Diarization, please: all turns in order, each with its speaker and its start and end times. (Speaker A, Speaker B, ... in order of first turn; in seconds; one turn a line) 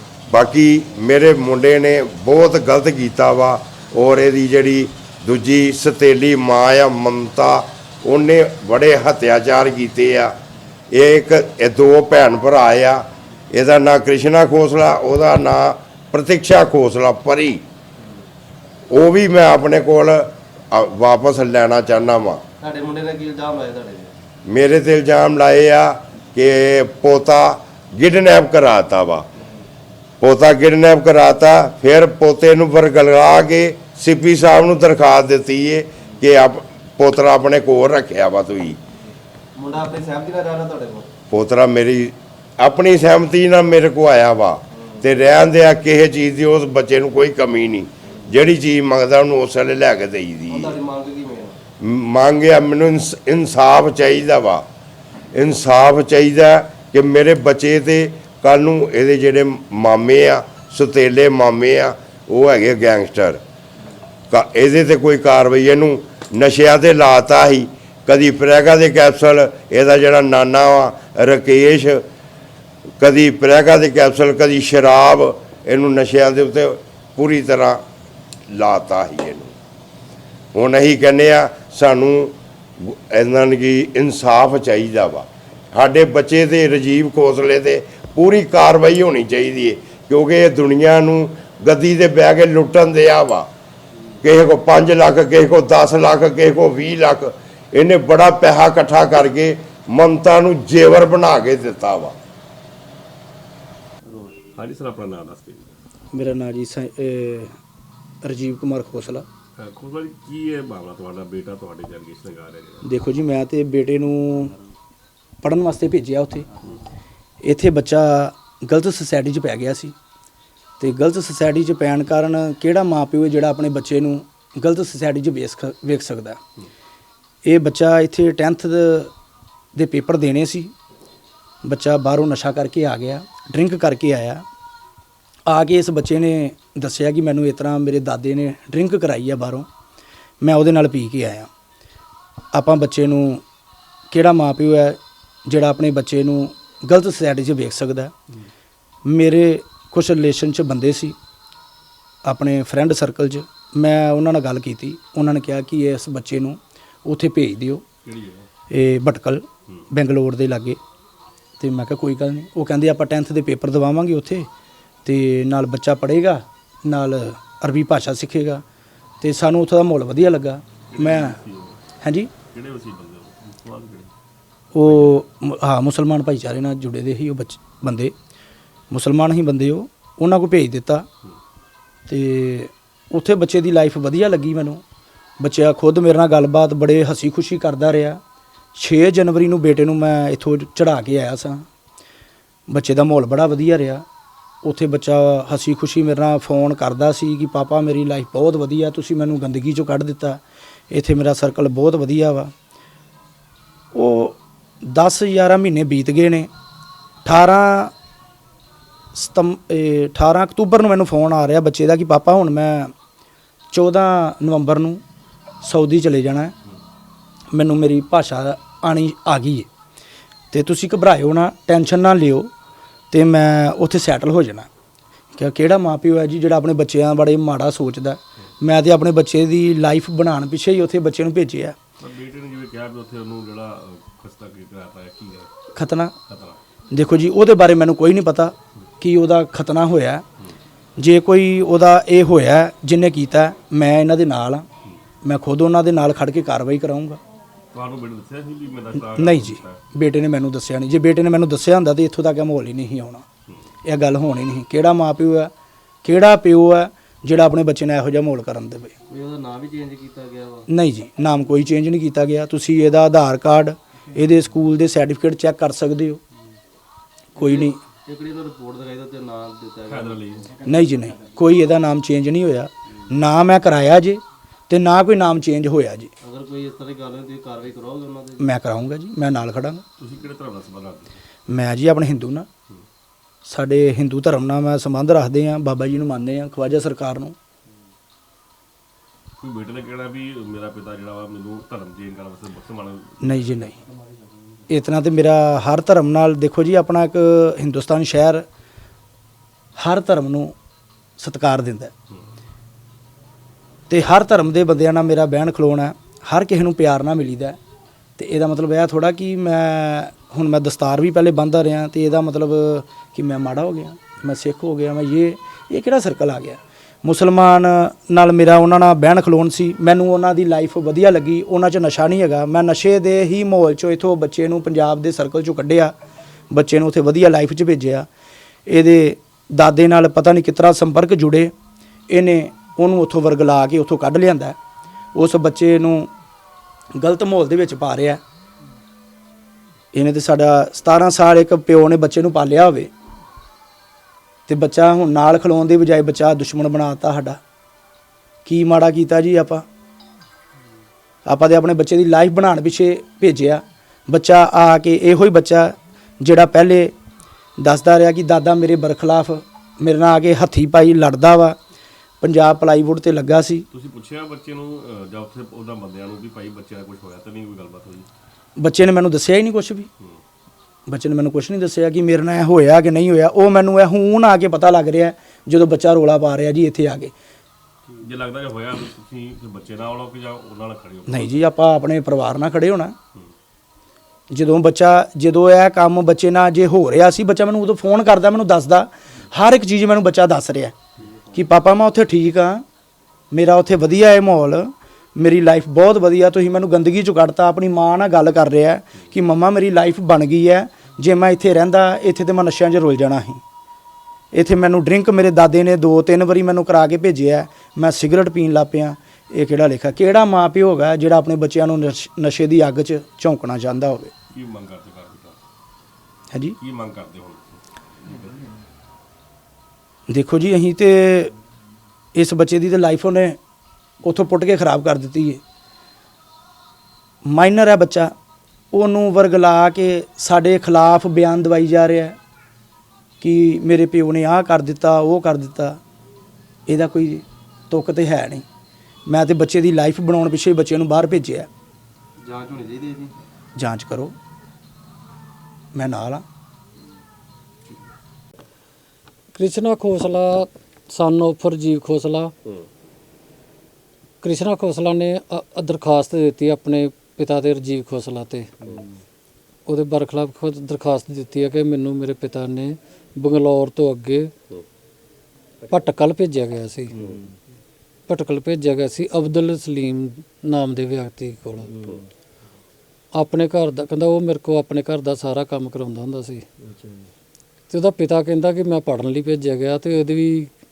Speaker A: 0.3-10.3
Speaker A: 10.9-17.6
Speaker A: 18.9-22.4
Speaker B: 22.6-24.1
Speaker A: 24.5-29.2
Speaker A: 30.2-38.8
Speaker B: 39.6-41.1
Speaker A: 41.3-50.8
Speaker B: 44.7-45.1
Speaker B: 50.5-51.6
Speaker A: 51.8-54.6
Speaker A: 55.3-63.4
Speaker A: 64.3-72.0
Speaker A: 73.0-77.8
Speaker A: 78.5-79.5
Speaker A: 80.5-93.5
Speaker A: 94.2-102.2
Speaker C: 104.3-105.8
Speaker D: 106.1-107.5
Speaker D: 108.2-109.2
Speaker C: 109.6-112.9
Speaker D: 112.8-114.5
Speaker D: 115.4-116.5
Speaker D: 117.4-120.0
Speaker D: 120.8-126.4
Speaker D: 127.5-129.1
Speaker D: 129.8-130.7
Speaker D: 131.7-134.4
Speaker D: 135.5-139.7
Speaker D: 140.4-141.5
Speaker D: 142.5-143.4
Speaker D: 144.1-148.1
Speaker D: 149.1-151.2
Speaker D: 152.2-157.8
Speaker C: 158.1-158.5
Speaker D: 158.7-160.8
Speaker D: 161.6-164.5
Speaker D: 165.1-168.6
Speaker D: 169.2-171.4
Speaker C: 170.9-171.8
Speaker D: 172.0-172.3
Speaker C: 172.5-174.1
Speaker D: 174.8-178.1
Speaker C: 174.8-175.2
Speaker D: 178.9-181.1
Speaker D: 182.1-184.8
Speaker D: 185.4-188.2
Speaker D: 188.8-191.7
Speaker D: 192.7-194.0
Speaker D: 194.6-202.5
Speaker D: 203.9-206.5
Speaker D: 207.2-207.9
Speaker D: 209.1-212.9
Speaker D: 213.7-215.0
Speaker D: 215.6-216.5
Speaker D: 217.5-219.7
Speaker D: 220.5-222.5
Speaker D: 223.1-224.7
Speaker D: 225.3-231.8
Speaker C: 232.0-235.5
Speaker D: 235.8-236.2
Speaker C: 236.3-236.6
Speaker D: 236.9-240.2
Speaker D: 241.0-244.7
Speaker D: 245.2-247.2
Speaker C: 247.7-249.8
Speaker D: 249.1-253.2
Speaker D: 253.8-255.5
Speaker D: 256.0-258.9
Speaker B: 259.1-260.7
Speaker D: 260.7-266.2
Speaker D: 267.4-267.8
Speaker B: 267.4-270.3
Speaker C: 269.9-270.6
Speaker D: 270.6-276.1
Speaker B: 276.2-278.5
Speaker D: 278.4-279.8
Speaker C: 280.0-281.2
Speaker D: 281.5-282.5
Speaker D: 283.4-287.4
Speaker C: 289.4-293.7
Speaker D: 293.2-293.8
Speaker D: 294.7-298.5
Speaker D: 299.8-300.6
Speaker D: 301.2-301.9
Speaker D: 303.9-307.6
Speaker D: 308.2-325.9
Speaker D: 326.5-328.1
Speaker D: 328.7-331.5
Speaker D: 332.1-334.6
Speaker D: 335.1-336.1
Speaker D: 337.0-338.2
Speaker D: 339.9-342.9
Speaker D: 344.5-347.4
Speaker D: 348.4-349.6
Speaker D: 351.3-356.9
Speaker D: 357.6-361.6
Speaker D: 362.2-363.7
Speaker C: 363.7-368.1
Speaker D: 368.6-369.9
Speaker D: 370.9-377.1
Speaker C: 378.0-381.4
Speaker D: 381.1-382.9
Speaker D: 384.3-390.8
Speaker C: 391.0-391.2
Speaker D: 391.3-392.6
Speaker D: 393.3-403.4
Speaker D: 404.3-414.1
Speaker C: 414.3-415.4
Speaker C: 416.6-418.5
Speaker D: 420.1-421.3
Speaker D: 422.1-423.4
Speaker D: 424.0-425.4
Speaker D: 427.3-428.1
Speaker D: 428.7-432.2
Speaker D: 433.2-435.8
Speaker D: 436.7-438.4
Speaker D: 439.1-441.5
Speaker B: 442.2-443.1
Speaker D: 443.6-444.1
Speaker D: 445.8-446.2
Speaker E: 449.3-452.3
Speaker E: 454.2-458.5
Speaker E: 459.7-464.3
Speaker E: 465.7-467.0
Speaker C: 466.9-467.2
Speaker E: 468.1-471.7
Speaker E: 473.1-476.4
Speaker E: 477.7-480.5